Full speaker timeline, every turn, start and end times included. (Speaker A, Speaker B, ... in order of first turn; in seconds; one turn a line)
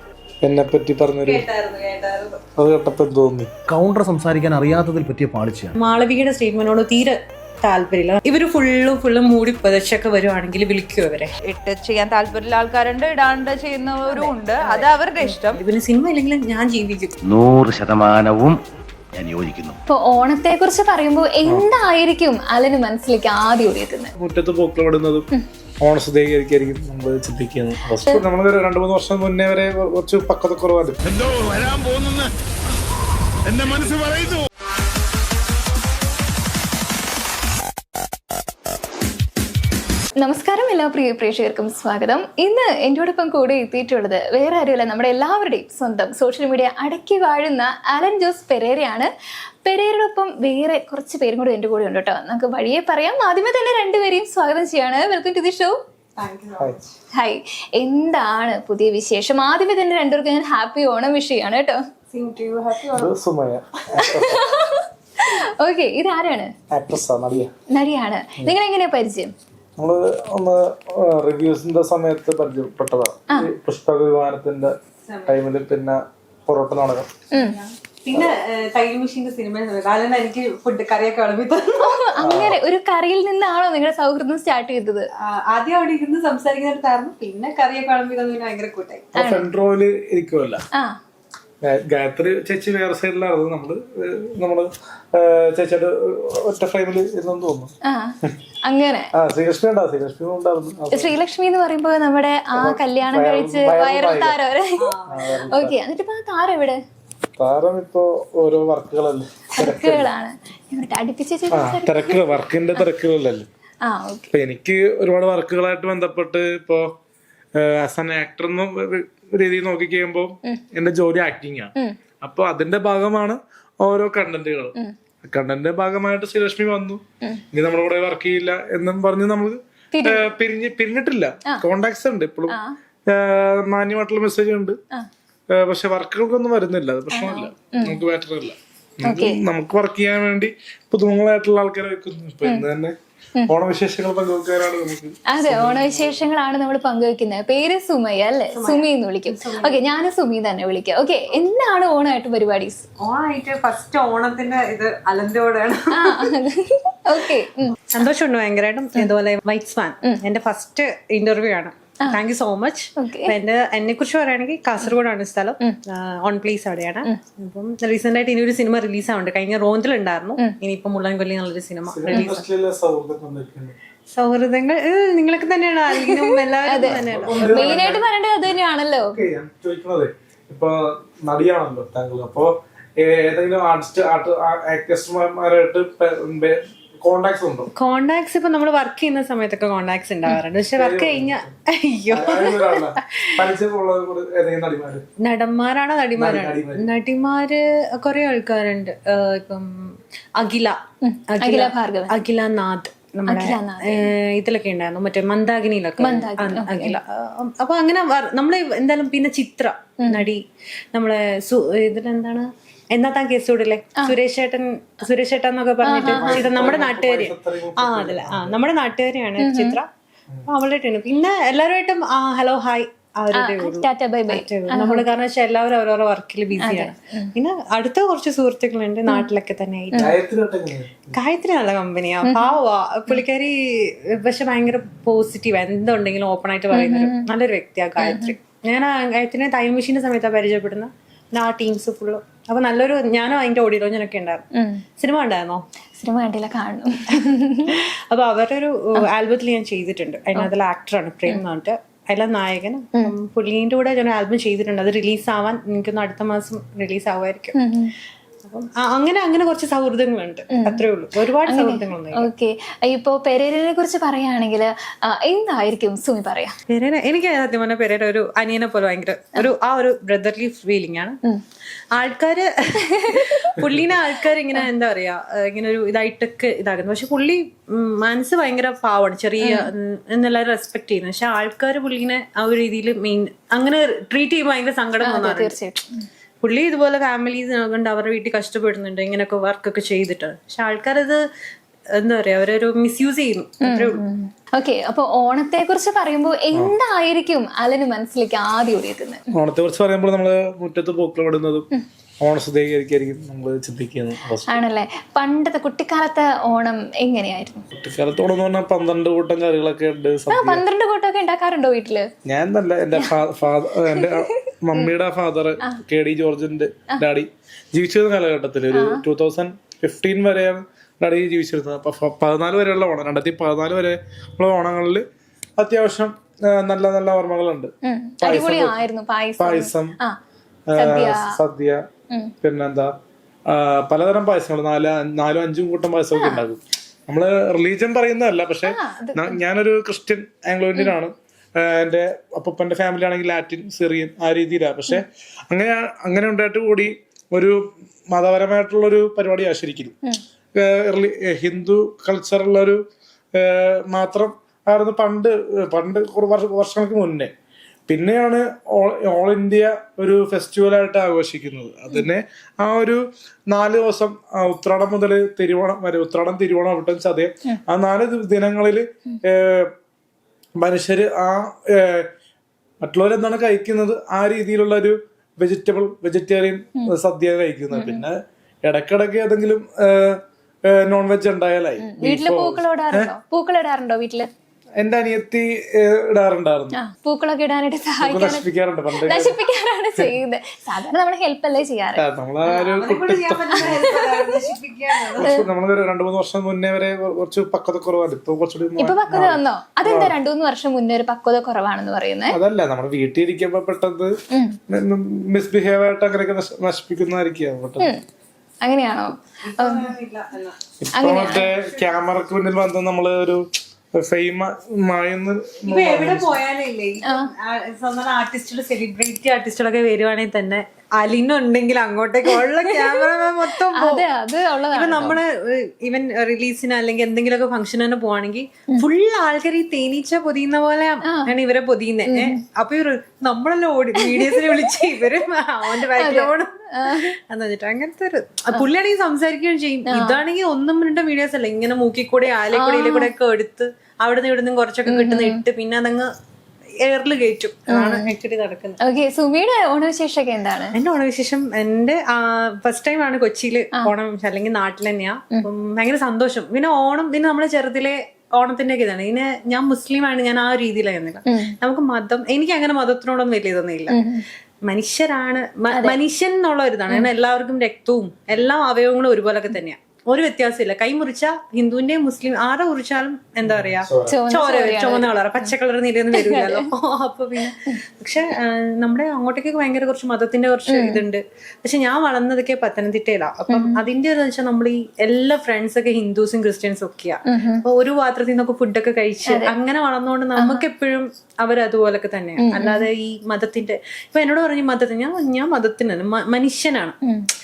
Speaker A: 0.4-1.4
Speaker B: 1.3-2.4
Speaker A: 2.6-3.5
Speaker C: 3.7-5.7
Speaker B: 5.8-11.3
Speaker D: 11.4-15.5
Speaker E: 14.1-14.7
Speaker B: 14.1-17.1
Speaker F: 17.2-18.6
Speaker F: 19.1-19.8
Speaker E: 19.9-24.1
Speaker A: 24.2-25.3
Speaker A: 25.8-31.0
Speaker G: 31.1-32.3
Speaker G: 33.5-34.3
Speaker E: 40.2-49.1
Speaker E: 49.6-55.8
Speaker B: 56.2-56.9
Speaker E: 57.1-61.8
Speaker B: 62.1-63.1
Speaker A: 62.9-64.4
Speaker E: 64.0-66.5
Speaker A: 66.7-67.5
Speaker E: 67.7-69.3
Speaker A: 69.8-74.7
Speaker B: 75.0-75.4
Speaker A: 75.3-77.1
Speaker B: 77.3-81.9
Speaker E: 81.8-85.1
Speaker A: 82.2-82.6
Speaker B: 85.2-89.1
Speaker A: 89.1-90.6
Speaker E: 89.2-89.5
Speaker A: 91.6-97.7
Speaker E: 97.8-99.1
Speaker A: 99.1-101.2
Speaker E: 100.9-104.9
Speaker A: 102.5-104.3
Speaker B: 104.8-105.4
Speaker A: 105.1-105.8
Speaker E: 105.4-106.8
Speaker A: 107.4-110.1
Speaker E: 109.6-112.2
Speaker A: 111.5-113.5
Speaker E: 113.8-114.3
Speaker A: 114.3-116.9
Speaker A: 117.5-134.8
Speaker E: 129.9-130.3
Speaker E: 132.5-132.8
Speaker A: 135.5-142.9
Speaker E: 137.1-138.0
Speaker E: 139.0-139.4
Speaker A: 143.5-146.1
Speaker E: 145.3-152.8
Speaker B: 148.5-149.8
Speaker B: 153.0-156.3
Speaker E: 155.9-158.1
Speaker B: 157.9-172.4
Speaker E: 163.0-163.3
Speaker A: 171.9-173.7
Speaker B: 174.1-178.0
Speaker E: 175.9-179.2
Speaker A: 176.8-178.0
Speaker A: 179.0-187.7
Speaker B: 187.8-192.8
Speaker A: 190.7-191.5
Speaker A: 192.1-195.0
Speaker B: 195.2-200.8
Speaker A: 196.2-196.8
Speaker E: 201.0-202.2
Speaker B: 201.3-210.4
Speaker E: 203.3-204.1
Speaker E: 206.0-207.0
Speaker E: 210.0-210.3
Speaker B: 210.9-219.9
Speaker E: 215.8-216.5
Speaker A: 216.0-218.6
Speaker E: 219.4-219.8
Speaker B: 220.5-230.2
Speaker E: 223.4-225.1
Speaker E: 226.6-227.3
Speaker A: 229.9-231.1
Speaker B: 231.1-244.4
Speaker E: 232.2-232.5
Speaker E: 236.7-237.2
Speaker E: 238.0-238.3
Speaker E: 244.5-244.8
Speaker B: 245.0-245.6
Speaker E: 245.9-247.8
Speaker B: 247.2-257.6
Speaker E: 257.5-257.9
Speaker B: 258.4-262.3
Speaker E: 260.5-260.8
Speaker E: 261.4-266.6
Speaker B: 266.7-271.2
Speaker B: 271.9-285.6
Speaker E: 272.8-273.5
Speaker E: 279.4-279.7
Speaker E: 285.0-286.0
Speaker B: 286.4-291.2
Speaker B: 291.9-294.0
Speaker E: 293.6-299.2
Speaker A: 299.3-301.7
Speaker A: 302.2-304.6
Speaker E: 304.5-307.6
Speaker A: 307.7-310.6
Speaker E: 310.3-312.1
Speaker A: 312.2-325.0
Speaker E: 313.8-314.9
Speaker E: 318.7-319.0
Speaker A: 325.6-328.7
Speaker E: 327.8-330.2
Speaker A: 329.4-330.0
Speaker A: 330.7-331.8
Speaker E: 330.8-331.4
Speaker A: 332.4-332.9
Speaker A: 333.5-349.9
Speaker E: 336.2-336.4
Speaker E: 338.6-339.4
Speaker A: 350.6-352.8
Speaker A: 353.3-357.3
Speaker A: 357.9-369.7
Speaker A: 370.6-372.1
Speaker A: 372.8-383.1
Speaker E: 377.7-378.0
Speaker E: 381.8-384.3
Speaker A: 384.8-386.8
Speaker E: 386.7-392.0
Speaker A: 388.0-389.4
Speaker A: 391.9-393.9
Speaker B: 392.4-395.3
Speaker E: 393.5-394.4
Speaker E: 395.2-395.4
Speaker A: 395.2-400.1
Speaker E: 398.8-402.4
Speaker A: 402.3-404.1
Speaker E: 404.3-404.6
Speaker A: 404.7-407.9
Speaker E: 408.6-409.9
Speaker B: 409.4-410.6
Speaker A: 410.8-413.4
Speaker E: 410.9-411.5
Speaker A: 413.9-416.4
Speaker B: 415.7-424.0
Speaker E: 422.4-425.2
Speaker B: 424.7-446.1
Speaker E: 432.1-432.4
Speaker E: 434.0-435.1
Speaker E: 435.7-437.1
Speaker E: 439.9-440.2
Speaker E: 442.5-443.1
Speaker E: 444.9-445.4
Speaker B: 446.8-448.8
Speaker E: 447.7-448.1
Speaker E: 448.8-450.7
Speaker B: 450.7-464.0
Speaker E: 461.2-461.5
Speaker E: 463.9-464.2
Speaker B: 464.6-496.9
Speaker E: 465.7-466.0
Speaker A: 473.4-474.2
Speaker E: 474.1-475.5
Speaker E: 476.1-476.7
Speaker E: 480.7-481.0
Speaker E: 483.5-483.8
Speaker E: 487.2-487.6
Speaker E: 489.3-489.5
Speaker E: 490.4-490.6
Speaker E: 492.4-492.9